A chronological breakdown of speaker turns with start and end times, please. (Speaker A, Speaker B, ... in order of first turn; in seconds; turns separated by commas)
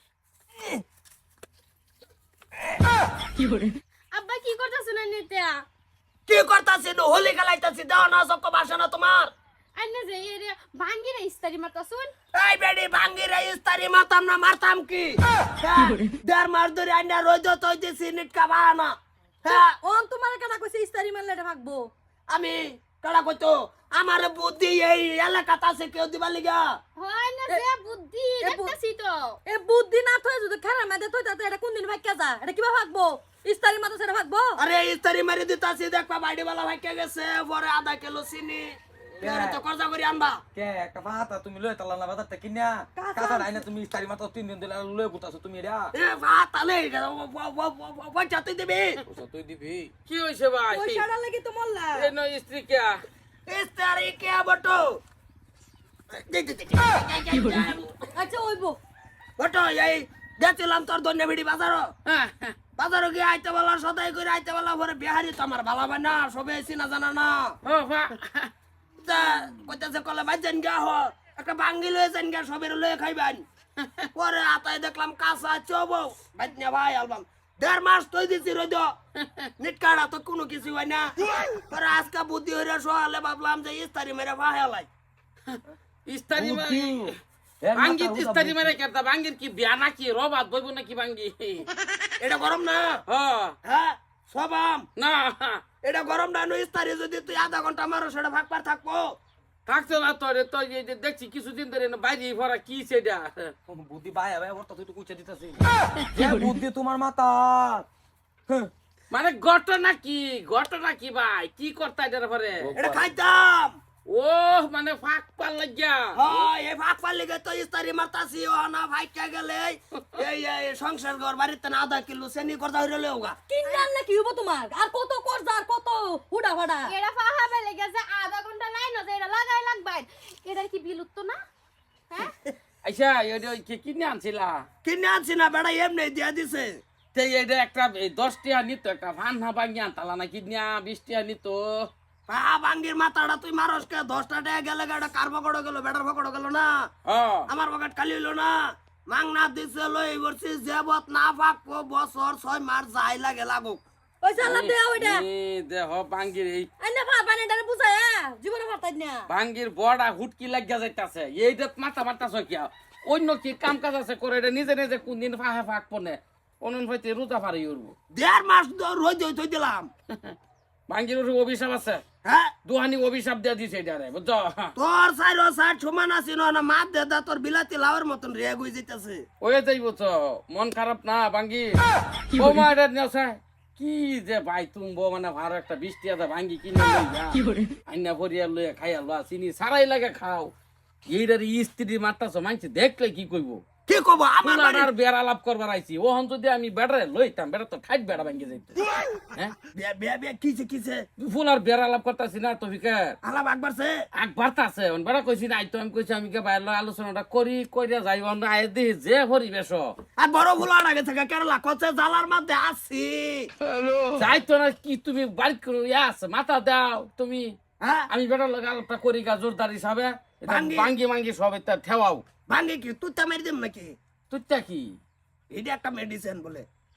Speaker A: 4.1-5.7, Speaker B: 6.3-9.3, Speaker A: 9.7-12.1, Speaker B: 12.3-18.9, Speaker B: 19.4-19.8, Speaker C: 19.5-21.9, Speaker B: 22.3-26.7, Speaker A: 27.0-29.4, Speaker C: 28.4-28.8, Speaker C: 29.4-34.6, Speaker B: 34.6-40.4, Speaker D: 39.2-39.6, Speaker D: 40.5-45.9, Speaker C: 43.0-43.5, Speaker B: 45.9-49.0, Speaker E: 49.1-51.0, Speaker C: 50.7-52.1, Speaker E: 51.9-53.0, Speaker B: 53.5-55.0, Speaker B: 56.1-57.9, Speaker C: 58.1-58.8, Speaker B: 59.4-61.9, Speaker E: 62.0-62.5, Speaker B: 62.8-67.6, Speaker E: 67.6-68.5, Speaker B: 69.0-73.4, Speaker E: 73.8-74.0, Speaker B: 74.1-78.9, Speaker E: 79.2-79.5, Speaker B: 79.6-84.9, Speaker E: 85.5-87.2, Speaker D: 86.3-88.8, Speaker E: 87.7-91.7, Speaker B: 92.2-93.0, Speaker E: 93.1-93.5, Speaker B: 93.6-94.8, Speaker E: 95.0-95.6, Speaker B: 95.8-99.1, Speaker E: 99.7-103.5, Speaker D: 103.7-105.6, Speaker D: 106.1-107.8, Speaker E: 109.1-112.7, Speaker D: 112.6-113.1, Speaker B: 112.8-113.8, Speaker E: 114.1-116.5, Speaker B: 116.2-123.3, Speaker C: 123.5-126.9, Speaker A: 123.6-123.9, Speaker A: 126.8-131.4, Speaker E: 132.8-134.7, Speaker B: 134.8-136.8, Speaker E: 137.1-141.9, Speaker B: 142.3-146.8, Speaker E: 147.1-147.4, Speaker B: 147.5-153.8, Speaker C: 154.2-155.2, Speaker E: 154.4-156.7, Speaker C: 156.8-159.3, Speaker E: 159.3-167.9, Speaker B: 168.1-169.9, Speaker E: 170.9-172.0, Speaker B: 172.2-172.5, Speaker E: 172.6-174.7, Speaker B: 174.8-179.2, Speaker E: 179.4-190.5, Speaker E: 191.1-193.6, Speaker B: 193.9-194.9, Speaker E: 194.4-198.8, Speaker B: 199.8-201.1, Speaker E: 201.2-203.2, Speaker B: 203.2-204.0, Speaker E: 204.1-209.9, Speaker B: 210.2-213.5, Speaker D: 213.7-214.2, Speaker E: 214.2-217.6, Speaker B: 217.8-218.1, Speaker E: 218.1-222.2, Speaker B: 220.5-220.9, Speaker B: 222.5-223.9, Speaker E: 224.3-224.9, Speaker B: 225.5-226.7